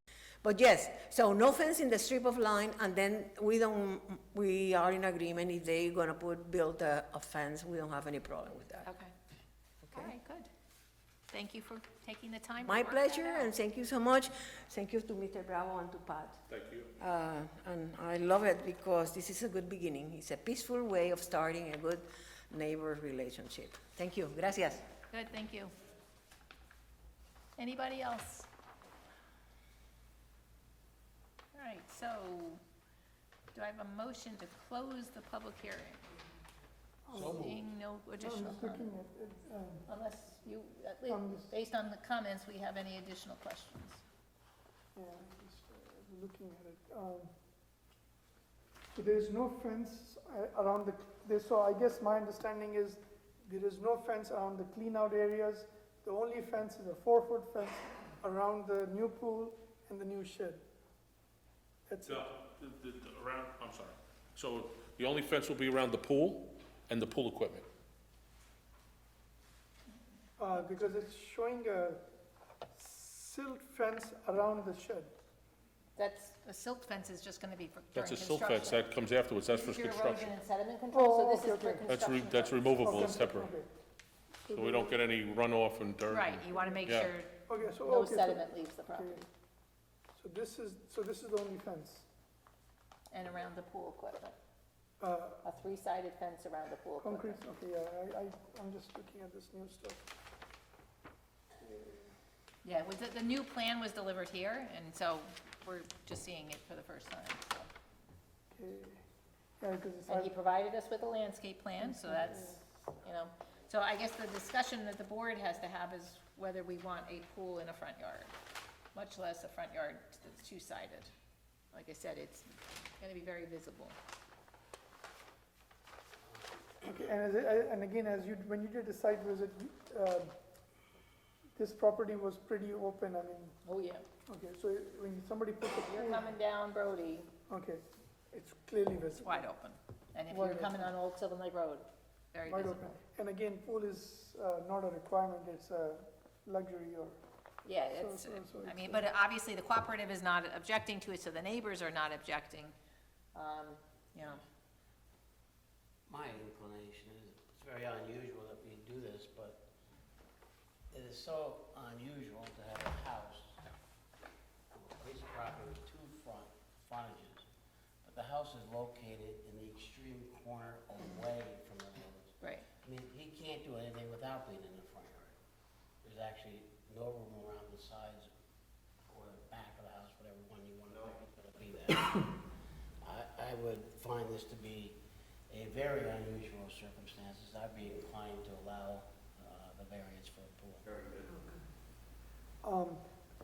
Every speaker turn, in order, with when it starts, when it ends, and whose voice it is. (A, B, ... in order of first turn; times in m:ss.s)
0:00.4-0:08.9 A
0:08.8-0:09.1 B
0:09.9-0:10.5 B
0:11.3-0:13.5 B
0:12.6-0:16.4 A
0:16.5-0:16.9 C
0:17.0-0:24.8 A
0:25.1-0:25.7 B
0:27.6-0:28.5 B
0:31.5-0:32.6 B
0:33.5-0:36.1 B
0:37.0-0:37.4 D
0:37.1-0:37.6 E
0:37.2-0:38.9 B
0:38.2-0:39.8 D
0:39.9-0:44.0 B
0:41.1-0:41.5 D
0:44.9-0:47.3 D
0:48.9-1:00.6 D
1:01.9-1:02.3 D
1:02.1-1:07.7 C
1:10.4-1:12.0 D
1:12.7-1:15.1 D
1:16.0-1:18.8 B
1:17.9-1:20.3 C
1:19.5-1:22.7 B
1:20.9-1:22.1 D
1:21.9-1:23.5 C
1:22.8-1:23.7 D
1:24.5-1:25.0 D
1:24.5-1:27.1 C
1:26.1-1:29.2 B
1:27.5-1:29.2 D
1:30.2-1:32.1 D
1:33.1-1:34.4 B
1:35.0-1:35.4 D
1:35.4-1:37.4 B
1:37.0-1:40.1 D
1:41.6-1:42.1 D
1:42.6-1:47.7 B
1:48.5-1:49.0 D
1:49.6-1:50.3 D
1:50.1-1:58.3 B
1:51.8-1:52.6 D
1:58.9-2:01.1 B
2:01.7-2:04.0 B
2:06.8-2:10.3 D
2:11.6-2:13.5 D
2:13.6-2:14.0 B
2:14.3-2:16.3 D
2:15.7-2:17.3 B
2:17.5-2:19.5 D
2:19.2-2:23.0 B
2:20.3-2:20.9 D
2:22.5-2:27.2 D
2:27.6-2:32.7 B
2:27.9-2:29.1 D
2:33.3-2:34.4 B
2:36.1-2:39.6 E
2:40.9-2:43.6 E
2:44.7-2:47.4 E
2:48.0-2:55.3 E
2:52.4-2:52.6 B
2:56.0-2:58.3 E
2:59.1-3:02.4 E
3:03.0-3:05.0 E
3:05.5-3:10.9 E
3:12.6-3:13.0 D